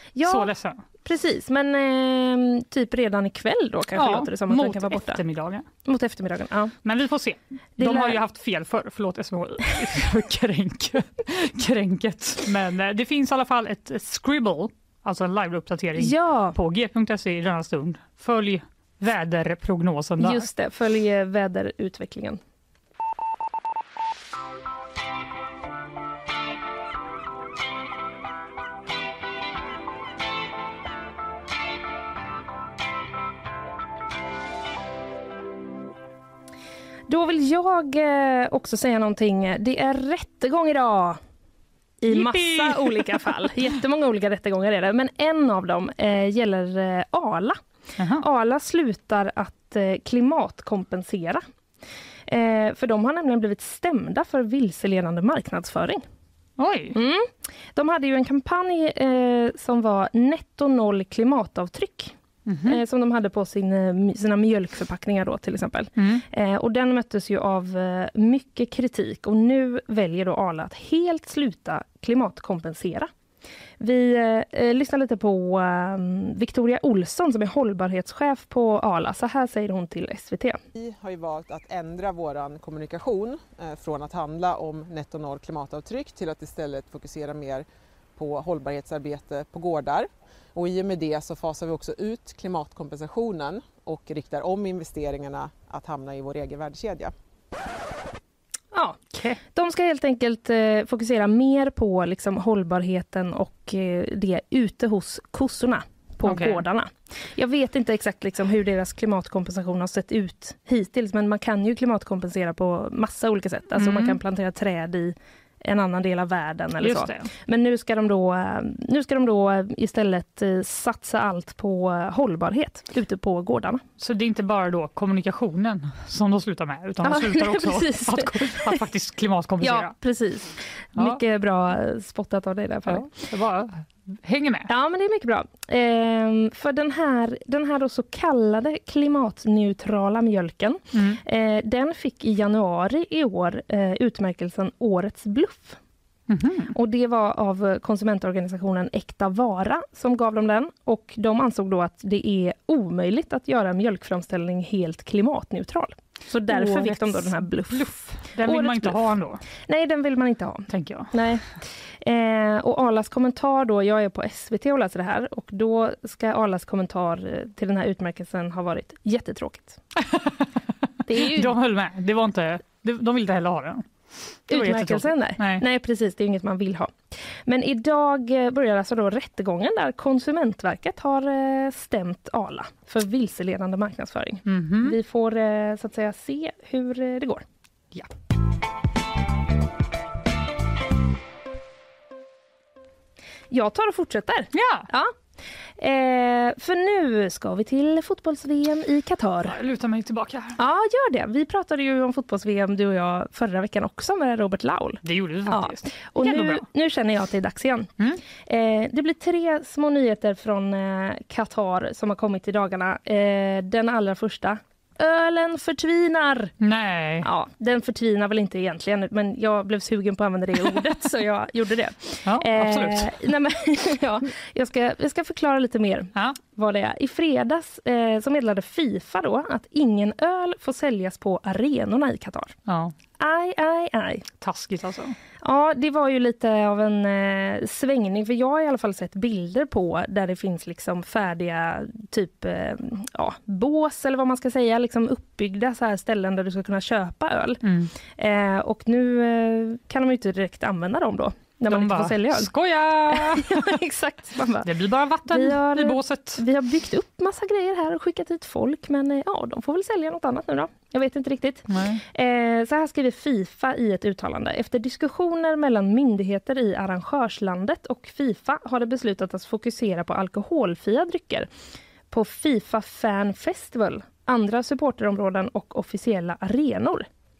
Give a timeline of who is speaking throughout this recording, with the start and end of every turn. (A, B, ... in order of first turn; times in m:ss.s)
0:00.2-0:00.5 A
0:00.2-0:00.8 B
0:01.0-0:05.2 A
0:04.0-0:05.6 B
0:05.8-0:06.7 A
0:06.8-0:20.4 B
0:07.8-0:08.2 A
0:16.0-0:16.6 A
0:20.2-0:22.4 A
0:37.1-0:41.2 A
0:42.0-0:47.6 A
0:42.1-0:43.5 B
0:48.0-0:48.2 B
0:48.2-0:51.4 A
0:52.3-0:56.0 A
0:56.6-0:57.0 B
0:56.9-1:13.1 A
1:02.4-1:02.8 B
1:06.0-1:06.2 B
1:13.8-1:20.6 A
1:20.7-1:27.6 C
1:28.2-1:37.1 C
1:38.7-2:03.8 A
1:39.1-1:39.4 B
1:46.2-1:46.6 B
1:53.8-1:54.2 B
1:56.8-1:57.3 B
2:04.0-2:09.9 B
2:07.0-2:08.8 A
2:09.6-2:13.1 A
2:11.0-2:11.2 B
2:12.9-2:14.7 B
2:14.7-2:25.8 A
2:20.9-2:21.2 B
2:26.3-2:26.7 B
2:26.7-2:37.9 A
2:36.5-2:39.4 B
2:38.4-2:41.5 A
2:40.7-2:41.1 B
2:42.0-2:49.8 A
2:50.0-2:50.5 B
2:51.1-2:51.5 A
2:51.1-2:55.6 B
2:54.5-3:07.4 A
3:04.4-3:05.0 B
3:13.5-3:15.1 A
3:14.5-3:14.9 B
3:15.8-3:19.6 A
3:19.4-3:20.6 B
3:20.6-3:27.9 A
3:25.0-3:26.6 B
3:28.5-3:36.5 A
3:36.6-3:37.3 B
3:37.2-3:52.5 A
3:42.2-3:43.2 B
3:52.7-3:52.9 B
3:53.2-3:54.2 A
3:54.4-3:55.1 B
3:55.4-4:12.5 A
4:07.6-4:07.9 B
4:11.7-4:13.7 B
4:13.1-4:14.7 A
4:14.6-4:16.4 B
4:15.3-4:31.5 A
4:21.7-4:22.0 B
4:32.1-4:37.1 A